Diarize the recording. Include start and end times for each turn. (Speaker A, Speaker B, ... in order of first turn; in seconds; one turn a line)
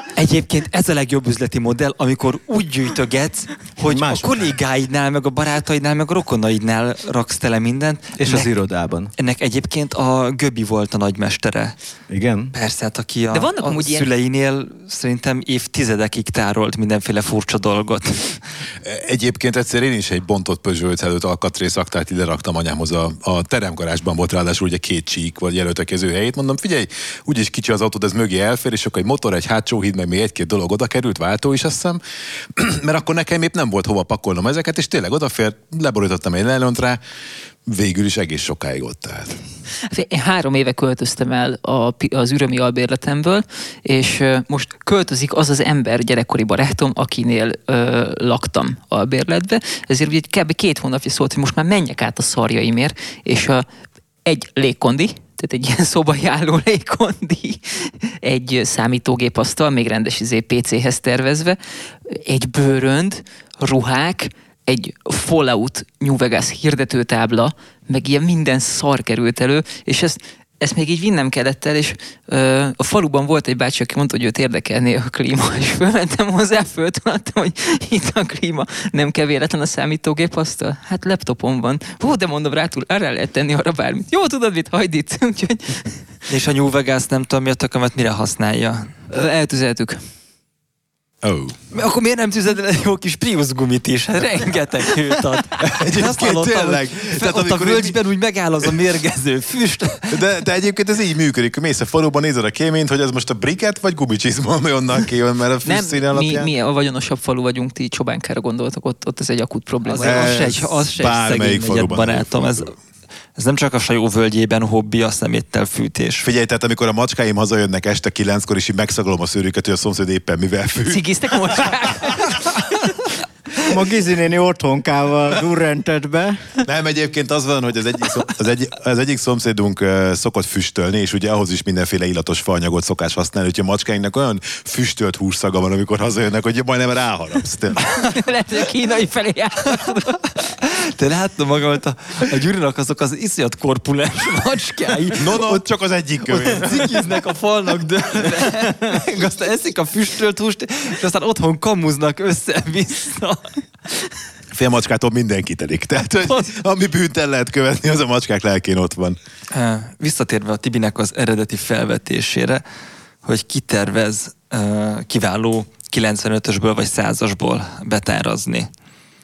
Speaker A: 0.1-8.5
Speaker B: 3.8-4.6
Speaker B: 8.2-9.1
Speaker A: 9.2-11.8
Speaker B: 12.1-12.5
Speaker A: 12.5-18.4
Speaker C: 13.3-14.1
Speaker D: 18.8-32.0
Speaker D: 32.6-37.0
Speaker D: 37.7-39.4
Speaker C: 39.8-53.7
Speaker C: 54.2-86.0
Speaker A: 86.3-88.9
Speaker C: 89.1-90.0
Speaker D: 91.2-91.6
Speaker A: 91.7-100.2
Speaker D: 95.6-98.0
Speaker D: 100.1-106.5
Speaker C: 105.7-110.5
Speaker A: 109.9-112.7
Speaker D: 110.0-112.7
Speaker A: 113.4-116.3
Speaker D: 116.2-121.0
Speaker C: 120.8-122.6
Speaker D: 121.6-122.0
Speaker B: 123.6-126.4
Speaker D: 126.7-138.0
Speaker C: 138.0-140.4
Speaker A: 140.6-145.6
Speaker D: 145.2-147.1
Speaker A: 146.3-154.1
Speaker D: 154.5-159.2
Speaker A: 156.2-156.5
Speaker A: 159.5-162.6
Speaker A: 163.2-168.7